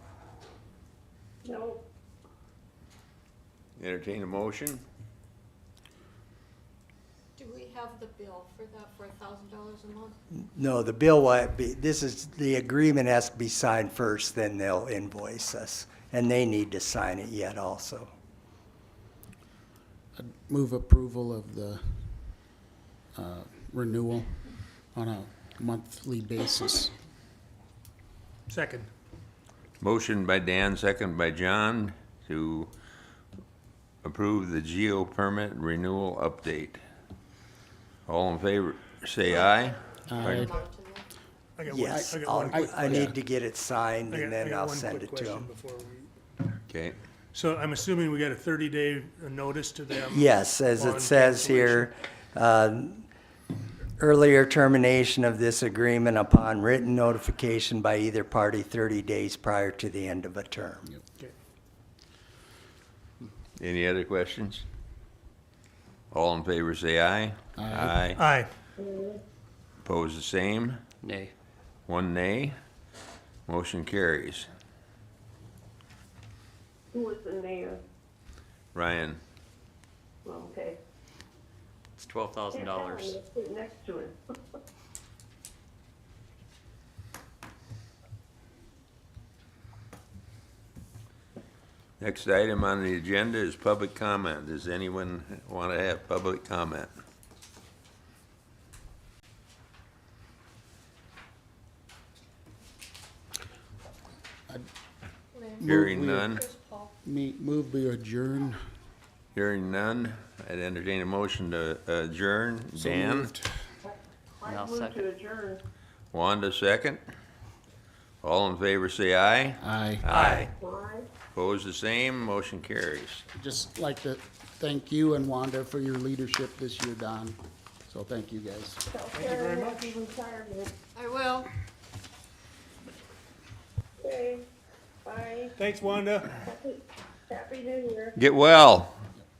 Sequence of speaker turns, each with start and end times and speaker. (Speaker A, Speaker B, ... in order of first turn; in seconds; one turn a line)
Speaker A: 1.4-1.8
Speaker B: 3.8-4.8
Speaker C: 7.4-10.2
Speaker D: 10.5-18.1
Speaker E: 20.1-22.6
Speaker E: 23.1-26.9
Speaker F: 28.5-28.9
Speaker B: 29.8-32.7
Speaker B: 34.0-36.8
Speaker B: 38.1-40.6
Speaker E: 40.1-40.5
Speaker C: 40.1-41.1
Speaker F: 41.6-43.0
Speaker D: 41.7-45.5
Speaker E: 41.9-43.2
Speaker F: 44.1-46.1
Speaker B: 46.7-47.0
Speaker F: 47.3-51.9
Speaker D: 50.1-53.1
Speaker D: 54.0-60.9
Speaker B: 63.6-64.6
Speaker B: 66.1-68.2
Speaker E: 67.6-68.0
Speaker F: 68.2-68.5
Speaker A: 68.8-69.2
Speaker B: 69.8-70.8
Speaker G: 71.0-71.3
Speaker B: 71.9-72.5
Speaker B: 73.5-74.5
Speaker A: 76.9-77.8
Speaker B: 78.7-79.2
Speaker A: 80.2-80.8
Speaker G: 82.0-83.2
Speaker A: 82.5-84.2
Speaker B: 92.0-96.9
Speaker C: 105.3-106.9
Speaker E: 105.6-106.5
Speaker B: 105.6-106.4
Speaker E: 107.0-108.6
Speaker B: 109.3-113.3
Speaker E: 112.8-113.6
Speaker A: 113.8-115.6
Speaker G: 114.5-115.0
Speaker B: 116.1-117.0
Speaker B: 118.2-120.5
Speaker E: 119.6-120.1
Speaker A: 120.1-121.1
Speaker B: 121.3-123.2
Speaker E: 123.3-128.8
Speaker A: 128.9-130.7
Speaker F: 129.1-129.9
Speaker C: 130.9-131.5
Speaker A: 134.0-134.4
Speaker A: 135.1-135.6
Speaker F: 135.6-136.3
Speaker A: 136.4-138.2
Speaker B: 138.2-138.9